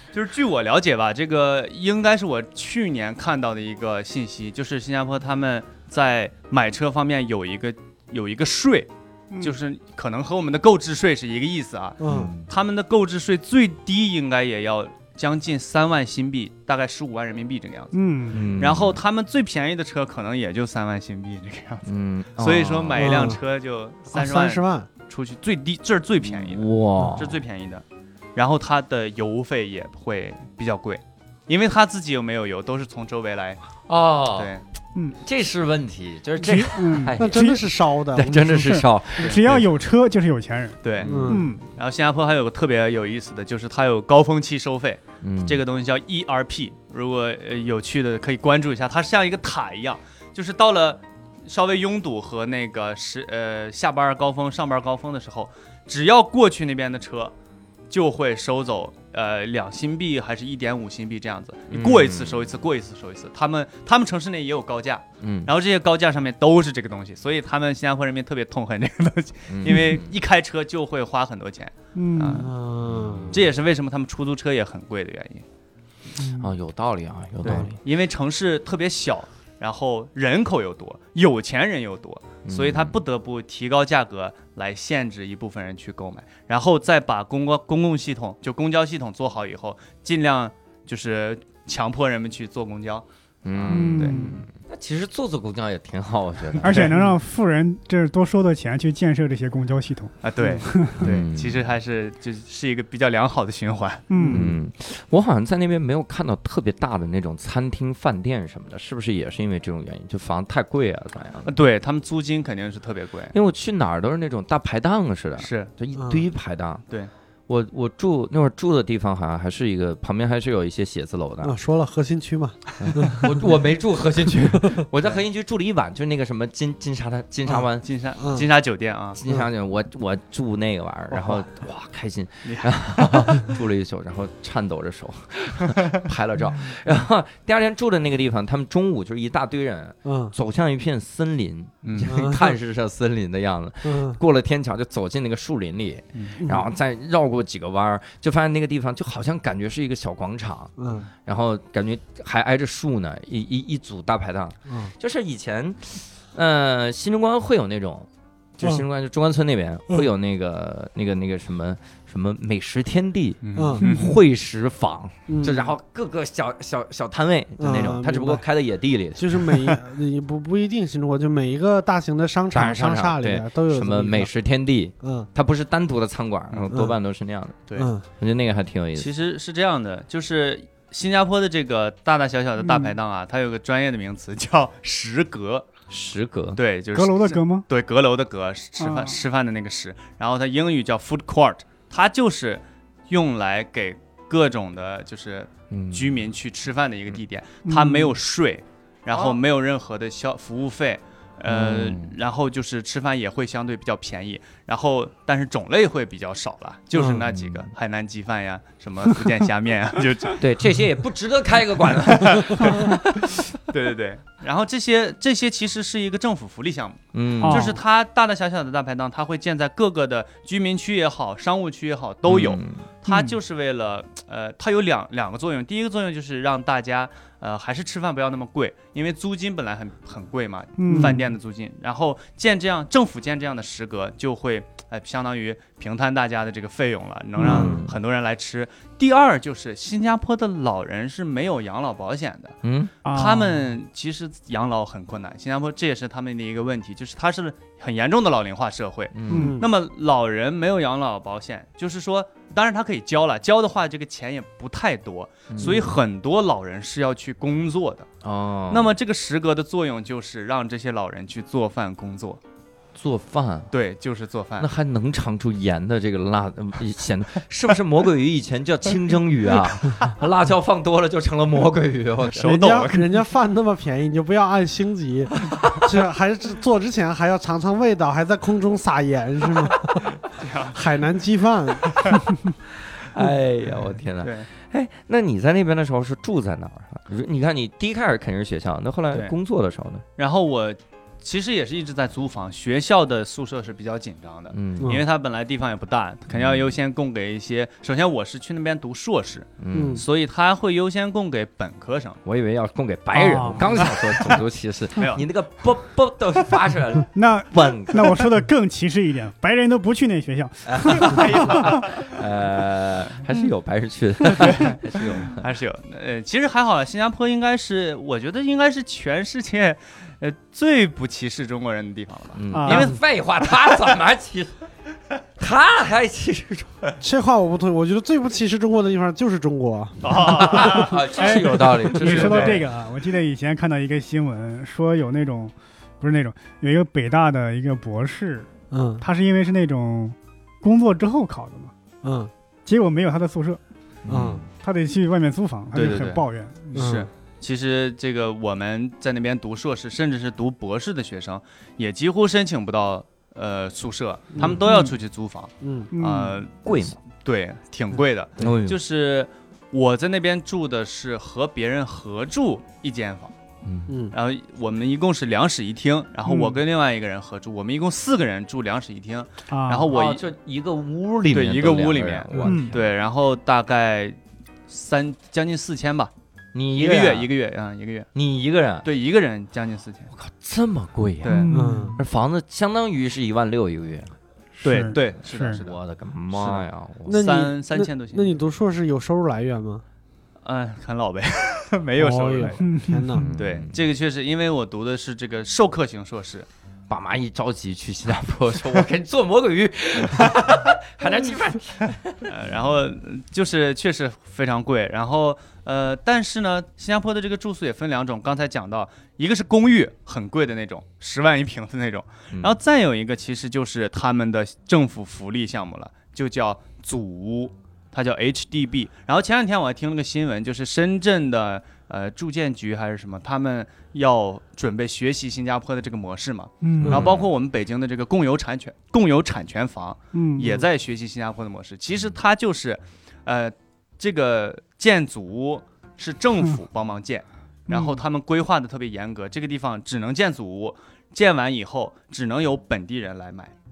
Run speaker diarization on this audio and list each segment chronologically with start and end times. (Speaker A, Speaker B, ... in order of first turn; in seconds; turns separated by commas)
Speaker A: 0.1-21.9, Speaker B: 12.0-12.3, Speaker C: 12.1-12.5, Speaker D: 17.9-18.4, Speaker C: 18.3-19.0, Speaker C: 21.8-23.3, Speaker A: 22.4-33.6, Speaker B: 23.0-23.4, Speaker B: 24.1-24.9, Speaker C: 26.2-27.4, Speaker C: 33.9-34.5, Speaker A: 34.3-34.6, Speaker C: 35.2-37.6, Speaker D: 36.4-37.6, Speaker B: 37.2-39.3, Speaker C: 38.1-39.6, Speaker A: 39.2-39.6, Speaker D: 39.2-41.6, Speaker A: 40.8-57.3, Speaker C: 41.0-41.4, Speaker B: 41.0-41.5, Speaker C: 45.2-45.6, Speaker A: 57.9-72.5, Speaker C: 61.7-62.6, Speaker C: 65.2-65.5, Speaker C: 69.5-70.1, Speaker D: 69.7-70.0, Speaker D: 72.0-72.5, Speaker B: 72.3-73.3, Speaker C: 72.8-73.4, Speaker A: 73.3-75.5, Speaker D: 76.2-76.5, Speaker C: 76.4-77.8, Speaker A: 77.4-94.4, Speaker C: 82.5-83.0, Speaker C: 93.4-96.9, Speaker D: 93.7-94.4, Speaker A: 96.6-97.1, Speaker D: 96.6-101.1, Speaker A: 100.2-104.4, Speaker C: 101.0-101.6, Speaker D: 104.1-104.5, Speaker C: 104.3-111.5, Speaker A: 111.5-113.3, Speaker C: 113.3-116.8, Speaker A: 115.4-115.7, Speaker B: 116.0-116.2, Speaker C: 117.5-121.5, Speaker B: 121.4-123.3, Speaker C: 122.8-127.8, Speaker A: 127.8-129.2, Speaker B: 128.2-128.5, Speaker C: 129.2-150.7, Speaker A: 132.4-133.4, Speaker B: 140.1-140.3, Speaker A: 141.8-142.1, Speaker B: 142.1-142.5, Speaker B: 143.8-144.2, Speaker A: 146.1-146.4, Speaker B: 146.4-146.7, Speaker B: 150.8-151.1, Speaker C: 151.2-169.5, Speaker B: 154.7-154.9, Speaker A: 163.4-164.2, Speaker B: 163.6-163.8, Speaker D: 163.8-164.1, Speaker B: 165.3-165.7, Speaker B: 167.6-168.4, Speaker B: 169.2-174.3, Speaker C: 172.5-177.6, Speaker B: 175.0-175.3, Speaker B: 177.8-178.1, Speaker C: 178.2-179.1, Speaker A: 178.9-185.7, Speaker D: 182.6-183.0, Speaker C: 185.9-186.6, Speaker A: 186.6-210.4, Speaker D: 186.9-187.7, Speaker D: 188.8-189.2, Speaker C: 195.7-196.2, Speaker D: 197.7-198.1, Speaker C: 201.5-202.2, Speaker C: 207.0-207.7, Speaker C: 210.4-213.0, Speaker A: 212.1-258.1, Speaker C: 217.1-217.8, Speaker D: 217.4-217.8, Speaker C: 222.3-222.9, Speaker D: 223.1-223.4, Speaker D: 230.8-231.2, Speaker B: 230.9-231.2, Speaker D: 237.4-237.7, Speaker C: 237.4-238.0, Speaker C: 242.6-242.9, Speaker D: 243.1-243.7, Speaker C: 249.1-249.5, Speaker D: 249.3-249.6, Speaker B: 249.3-249.7, Speaker C: 255.5-256.0, Speaker C: 258.2-258.9, Speaker A: 258.7-262.4, Speaker C: 262.9-263.7, Speaker A: 263.7-264.7, Speaker C: 264.6-273.0, Speaker B: 272.4-280.2, Speaker A: 272.4-272.8, Speaker C: 275.5-275.8, Speaker A: 280.3-280.8, Speaker B: 280.7-282.2, Speaker C: 282.9-290.1, Speaker A: 284.2-284.5, Speaker A: 290.2-302.2, Speaker C: 294.5-295.0, Speaker C: 296.3-296.7, Speaker C: 299.6-300.0, Speaker B: 299.7-300.0, Speaker C: 302.2-308.3, Speaker D: 303.1-304.2, Speaker A: 305.0-305.2, Speaker D: 307.1-311.9, Speaker C: 310.7-315.4, Speaker A: 311.0-312.1, Speaker A: 314.4-323.9, Speaker C: 322.4-324.5, Speaker D: 322.5-322.9, Speaker C: 325.4-326.8, Speaker B: 327.0-330.8, Speaker A: 330.0-332.7, Speaker C: 330.3-332.7, Speaker D: 330.8-341.7, Speaker B: 338.7-339.0, Speaker B: 342.0-342.3, Speaker D: 342.7-343.6, Speaker C: 344.1-344.5, Speaker B: 344.1-344.4, Speaker D: 344.5-346.9, Speaker A: 345.7-356.6, Speaker B: 346.7-347.1, Speaker D: 354.6-354.9, Speaker B: 355.6-355.9, Speaker D: 355.9-356.4, Speaker C: 356.6-357.0, Speaker A: 357.1-363.3, Speaker C: 358.4-358.8, Speaker C: 363.6-363.9, Speaker B: 363.9-364.1, Speaker A: 364.1-370.2, Speaker D: 366.3-366.6, Speaker D: 369.5-369.9, Speaker C: 369.9-372.9, Speaker A: 371.3-376.1, Speaker D: 372.4-372.7, Speaker C: 376.5-377.3, Speaker A: 376.8-378.1, Speaker C: 378.1-378.9, Speaker A: 378.8-380.1, Speaker C: 380.1-384.1, Speaker A: 381.2-381.5, Speaker D: 381.3-382.0, Speaker B: 381.5-382.0, Speaker D: 384.6-385.6, Speaker A: 384.6-385.8, Speaker C: 385.6-387.2, Speaker A: 386.3-388.3, Speaker B: 387.1-389.8, Speaker A: 390.4-392.7, Speaker B: 392.0-393.3, Speaker D: 392.6-393.3, Speaker C: 393.2-393.8, Speaker A: 393.4-396.5, Speaker C: 396.9-402.2, Speaker A: 402.3-443.5, Speaker D: 426.6-427.0, Speaker C: 426.8-427.3, Speaker D: 430.1-430.6